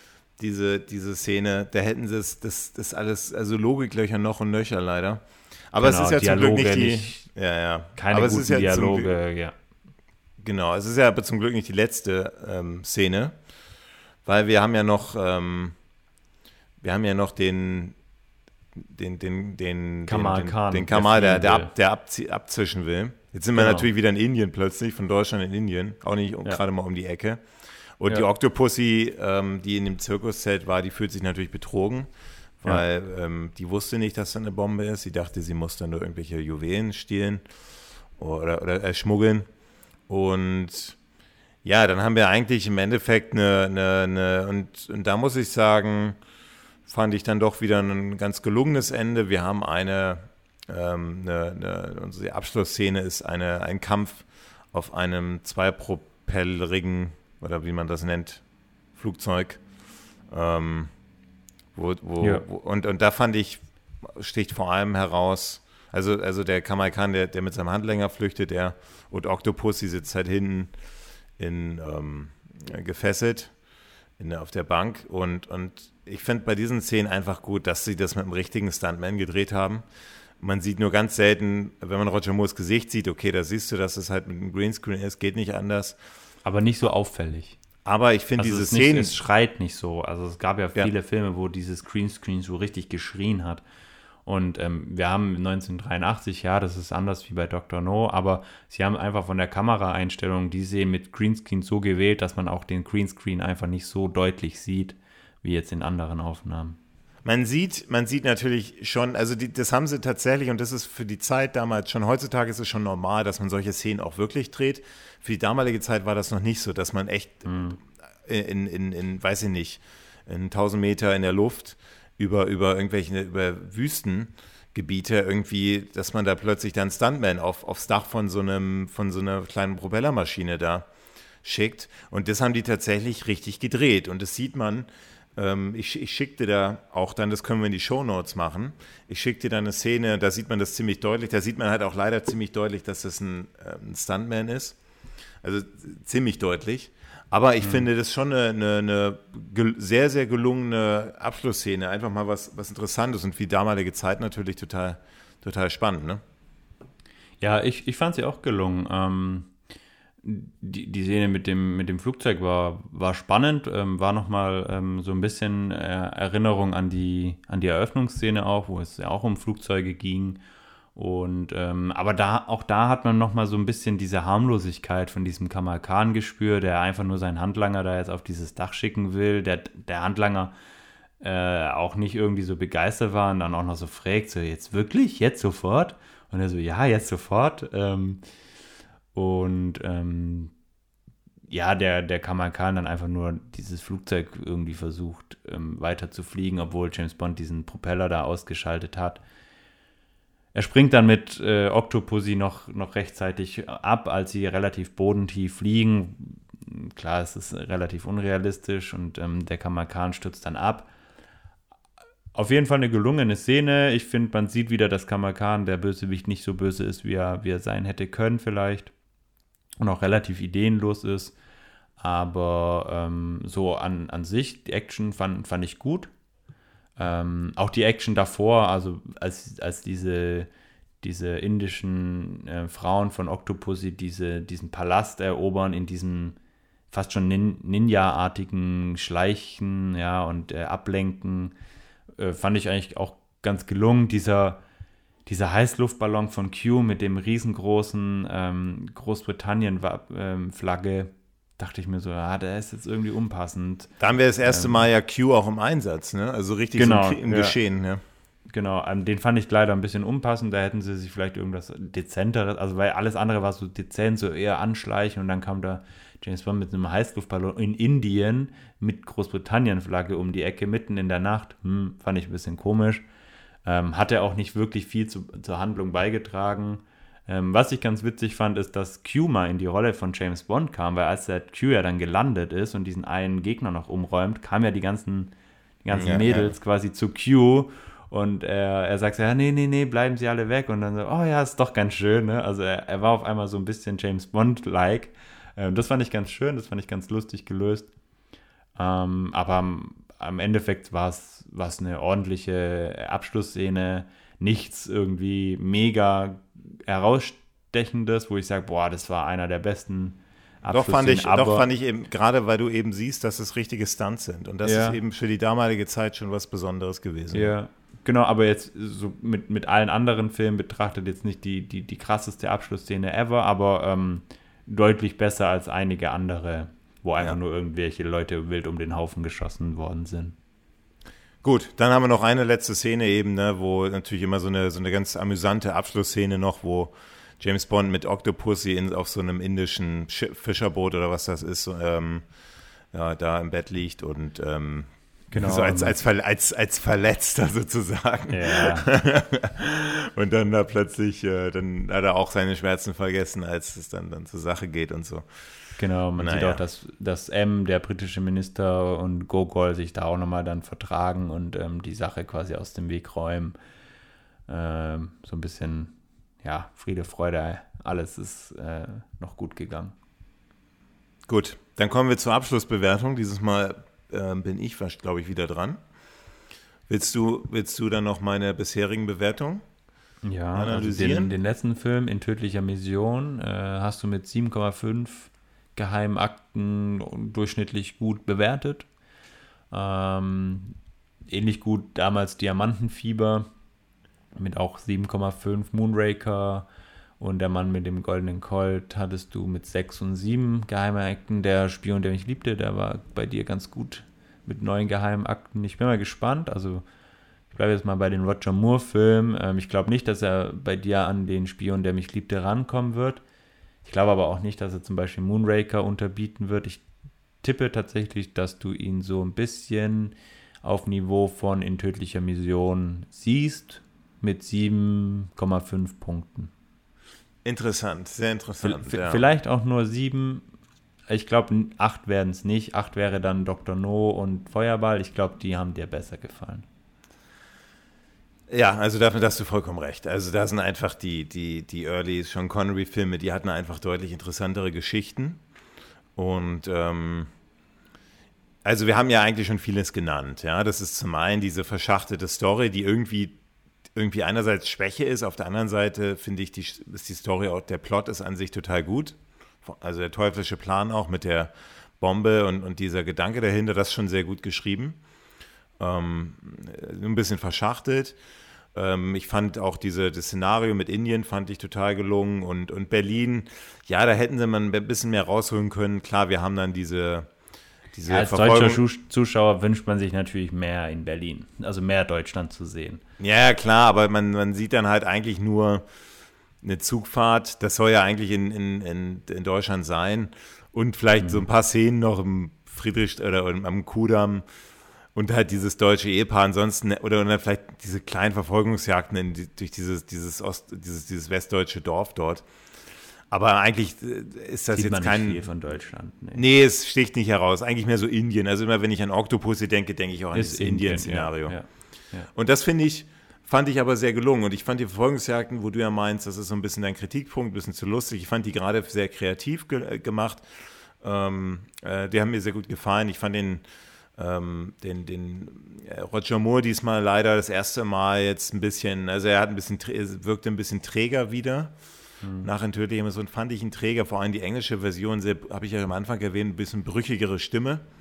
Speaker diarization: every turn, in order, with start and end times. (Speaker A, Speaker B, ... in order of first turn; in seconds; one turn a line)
Speaker A: 0.4-9.1
Speaker B: 5.8-7.3
Speaker B: 8.0-9.5
Speaker A: 10.4-13.3
Speaker A: 14.2-15.8
Speaker A: 16.8-18.0
Speaker A: 18.8-27.4
Speaker B: 20.1-21.7
Speaker B: 23.6-23.9
Speaker A: 28.0-32.1
Speaker A: 32.6-37.4
Speaker A: 38.2-39.5
Speaker A: 40.1-41.0
Speaker A: 41.6-46.2
Speaker A: 46.9-58.4
Speaker A: 59.0-59.6
Speaker A: 60.3-60.9
Speaker A: 61.8-70.7
Speaker A: 71.4-73.5
Speaker A: 74.2-79.8
Speaker A: 80.4-86.0
Speaker B: 86.5-87.6
Speaker A: 87.8-89.1
Speaker B: 88.4-93.6
Speaker B: 94.3-106.8
Speaker A: 107.2-130.9
Speaker B: 117.5-117.8
Speaker A: 131.4-144.8
Speaker A: 145.4-156.2
Speaker B: 147.6-147.9
Speaker B: 157.4-159.5
Speaker B: 160.2-170.4
Speaker B: 170.9-180.5
Speaker B: 181.2-188.2
Speaker B: 189.1-190.5
Speaker B: 191.5-199.2
Speaker B: 200.5-210.9
Speaker B: 212.3-218.9
Speaker B: 219.8-221.4
Speaker B: 222.0-226.1
Speaker B: 227.0-230.5
Speaker B: 231.0-236.4
Speaker B: 236.9-241.5
Speaker B: 242.2-244.6
Speaker B: 245.3-253.9
Speaker A: 254.0-258.0
Speaker B: 254.4-254.8
Speaker B: 256.8-257.6
Speaker B: 258.5-273.0
Speaker B: 273.6-297.9
Speaker A: 285.9-286.5
Speaker B: 298.8-311.7
Speaker A: 310.7-317.5
Speaker B: 314.6-315.0
Speaker B: 317.3-330.4
Speaker A: 331.4-342.3
Speaker A: 342.9-355.4
Speaker B: 345.3-346.0
Speaker B: 348.3-348.9
Speaker B: 355.8-363.6
Speaker A: 356.2-356.6
Speaker B: 364.5-369.9
Speaker A: 371.3-375.8
Speaker A: 376.9-379.6
Speaker B: 380.2-388.9
Speaker A: 380.6-381.3
Speaker B: 389.7-390.7
Speaker B: 391.3-393.5
Speaker B: 394.4-396.7
Speaker B: 397.2-406.9
Speaker B: 407.5-413.2
Speaker B: 413.9-416.8
Speaker B: 417.4-426.5
Speaker A: 427.4-429.2
Speaker B: 428.6-430.4
Speaker B: 431.1-436.6
Speaker A: 438.5-445.4
Speaker A: 446.2-447.3
Speaker A: 448.6-453.4
Speaker A: 453.9-465.0
Speaker A: 465.8-468.2
Speaker A: 468.7-477.3
Speaker A: 477.9-478.8
Speaker B: 478.1-483.0
Speaker A: 483.2-485.8
Speaker A: 486.6-494.4
Speaker B: 491.2-491.4
Speaker A: 495.1-502.5
Speaker A: 503.3-505.4
Speaker B: 504.7-506.4
Speaker A: 506.4-511.6
Speaker B: 510.3-512.3
Speaker A: 512.3-523.6
Speaker A: 524.2-531.7
Speaker B: 532.2-532.5
Speaker A: 532.4-537.8